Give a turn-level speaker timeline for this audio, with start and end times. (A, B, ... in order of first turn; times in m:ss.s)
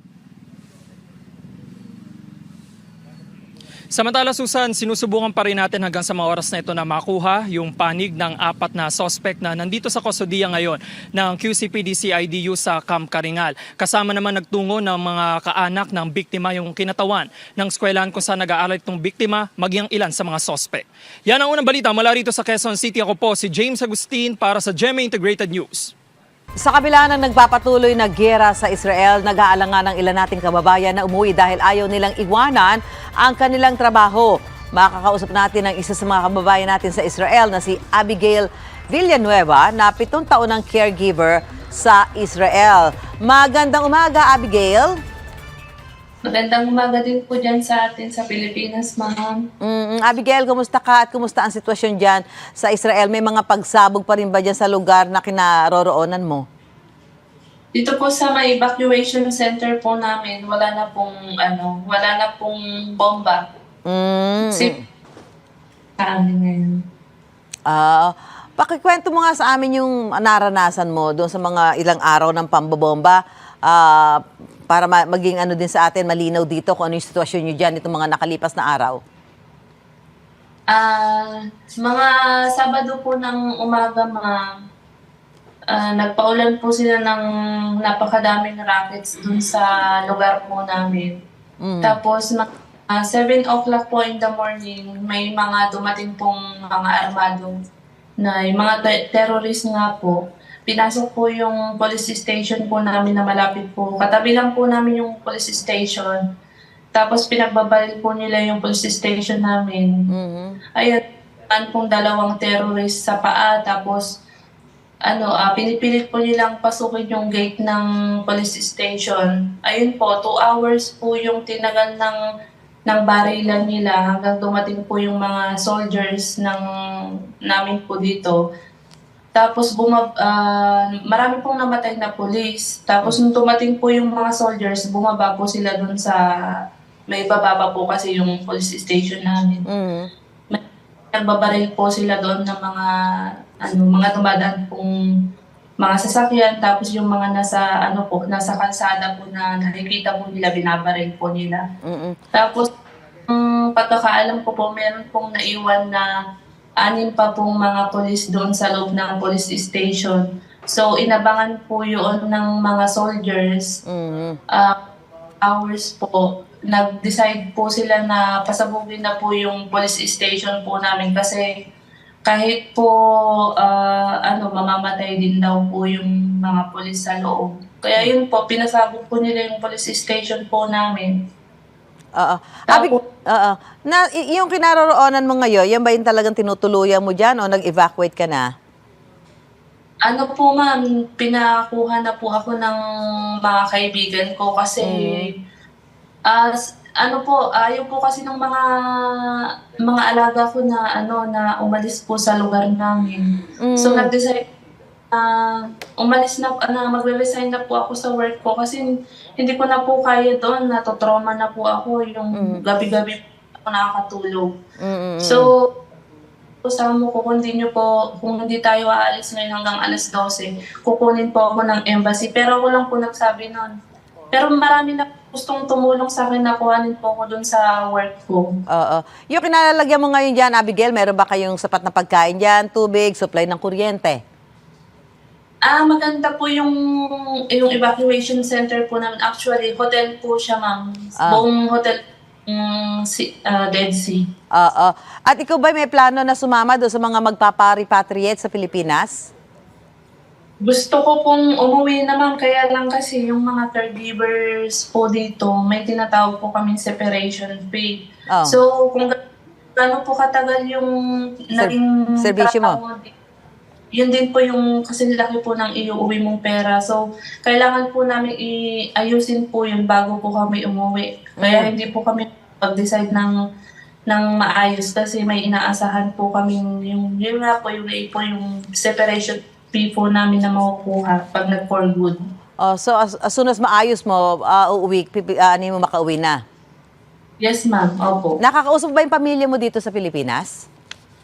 0:03.9-0:25.9 A
0:26.6-0:45.0 B
0:46.3-0:49.4 C
0:49.6-0:56.4 B
0:57.7-1:03.4 C
1:03.8-1:04.8 B
1:06.0-1:06.8 C
1:07.7-1:19.0 B
1:20.7-1:24.4 C
1:25.7-1:27.2 C
1:27.8-1:31.2 C
1:31.6-1:32.0 B
1:31.8-1:37.6 C
1:38.2-1:40.2 C
1:40.7-1:46.2 C
1:46.9-1:49.9 C
1:50.1-1:50.6 B
1:50.8-1:54.0 C
1:55.1-2:02.2 C
2:02.9-2:06.6 C
2:07.4-2:08.4 C
2:09.3-2:16.2 C
2:17.1-2:19.6 C
2:19.7-2:20.1 B
2:21.1-2:22.9 C
2:23.6-2:24.9 C
2:25.8-2:31.6 C
2:31.8-2:32.2 B
2:32.3-2:32.7 C
2:33.3-2:36.1 C
2:36.8-2:43.8 C
2:43.8-2:44.4 B
2:45.4-2:51.4 C
2:52.2-3:01.1 C
3:02.2-3:08.5 B
3:02.7-3:03.0 C
3:10.0-3:12.8 C
3:13.4-3:15.3 C
3:14.8-3:15.2 B
3:16.3-3:18.6 C
3:19.8-3:24.4 C
3:23.6-3:24.1 B
3:25.1-3:34.5 C
3:34.8-3:35.5 B
3:35.2-3:35.6 C
3:36.6-3:43.7 C
3:44.3-3:48.5 C
3:48.7-3:54.2 B
3:55.6-3:56.7 C
3:57.5-4:04.2 C
4:04.5-4:09.3 B
4:10.6-4:19.1 C
4:18.3-4:18.6 B
4:19.8-4:20.9 C
4:21.5-4:23.1 C
4:21.6-4:22.8 B
4:24.0-4:33.3 C
4:31.4-4:31.7 B
4:34.1-4:42.2 C
4:42.6-4:46.4 B
4:47.4-4:48.4 C
4:48.4-4:50.6 B